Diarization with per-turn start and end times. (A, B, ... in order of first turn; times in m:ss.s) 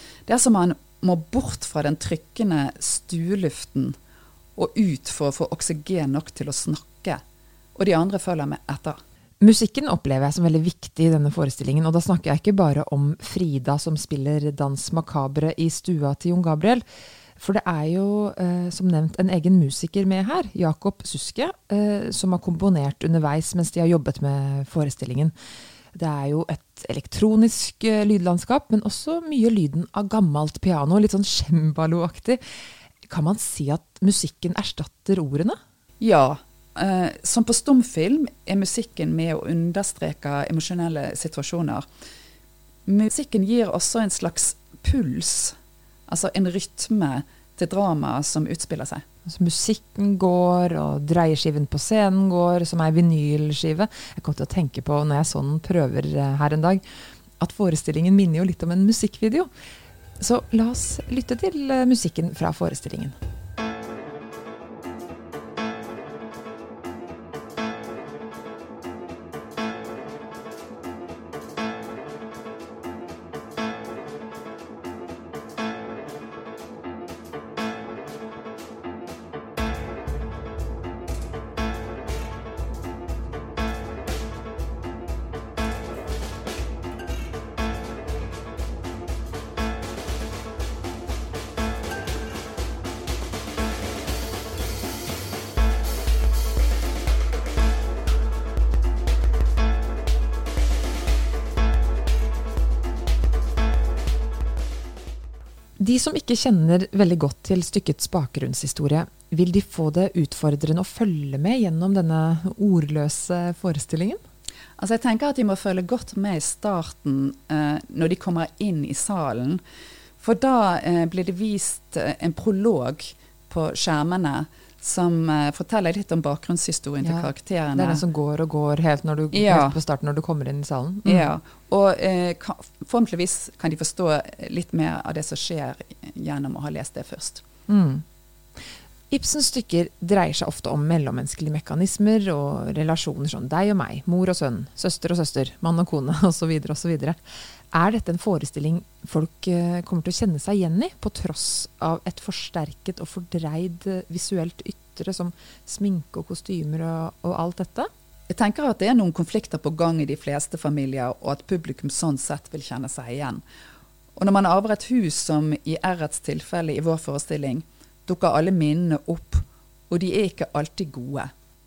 0:00.3-0:04.0 A
0:04.6-0:07.2 A
0:07.8-0:09.0 A
0:09.4-0:16.8 B
0:17.4-0:25.3 B
0:25.9-0:32.4 B
0:33.1-0:35.6 B
0:36.0-0:41.9 A
0:42.9-0:45.6 A
0:46.1-0:49.0 A
0:49.3-0:56.8 B
0:57.4-0:59.5 B
1:00.2-1:03.2 B
1:45.8-1:54.2 B
1:54.8-1:59.6 A
2:00.2-2:08.0 A
2:07.0-2:11.3 B
2:09.3-2:09.8 A
2:11.0-2:17.4 A
2:17.7-2:18.0 B
2:19.1-2:27.2 B
2:27.7-2:37.9 B
2:38.3-2:43.4 A
2:44.2-2:51.3 A